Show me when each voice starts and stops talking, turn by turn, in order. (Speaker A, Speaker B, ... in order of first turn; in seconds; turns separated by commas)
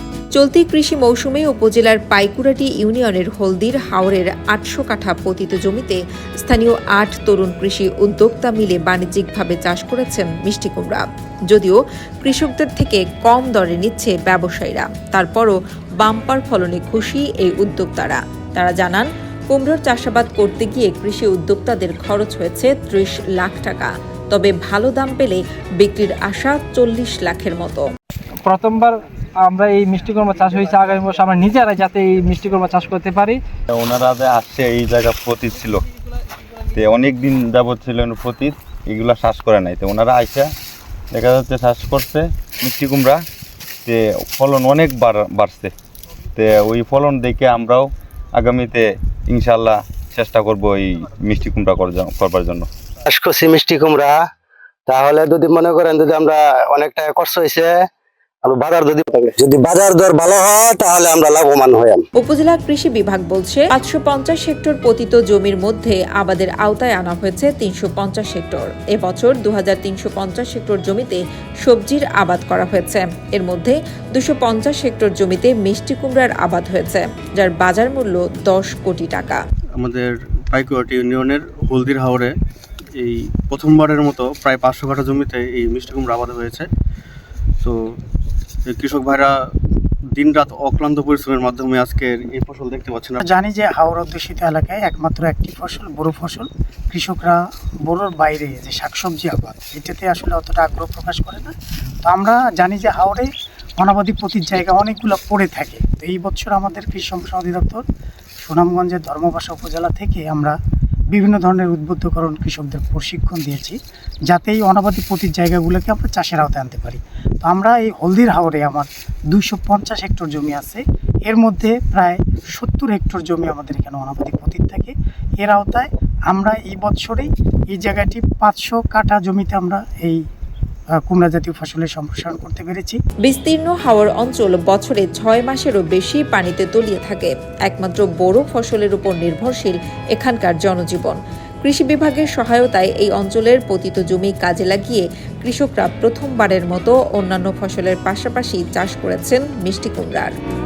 Speaker A: 0.3-27.9, Speaker B: 28.4-33.4, Speaker C: 33.7-35.9, Speaker C: 36.7-40.5, Speaker C: 41.1-43.2, Speaker C: 43.8-45.7, Speaker C: 46.4-52.7, Speaker D: 53.1-54.2, Speaker D: 54.9-57.9, Speaker D: 58.4-62.0, Speaker A: 62.2-79.4, Speaker E: 79.8-82.3, Speaker E: 83.0-86.7, Speaker E: 87.6-87.9, Speaker E: 88.7-89.3, Speaker E: 90.1-93.2, Speaker F: 93.2-101.5, Speaker F: 102.0-103.3, Speaker F: 103.8-107.8, Speaker F: 108.5-110.5, Speaker F: 111.1-113.8, Speaker F: 114.3-130.2, Speaker F: 131.1-133.0, Speaker A: 133.2-150.3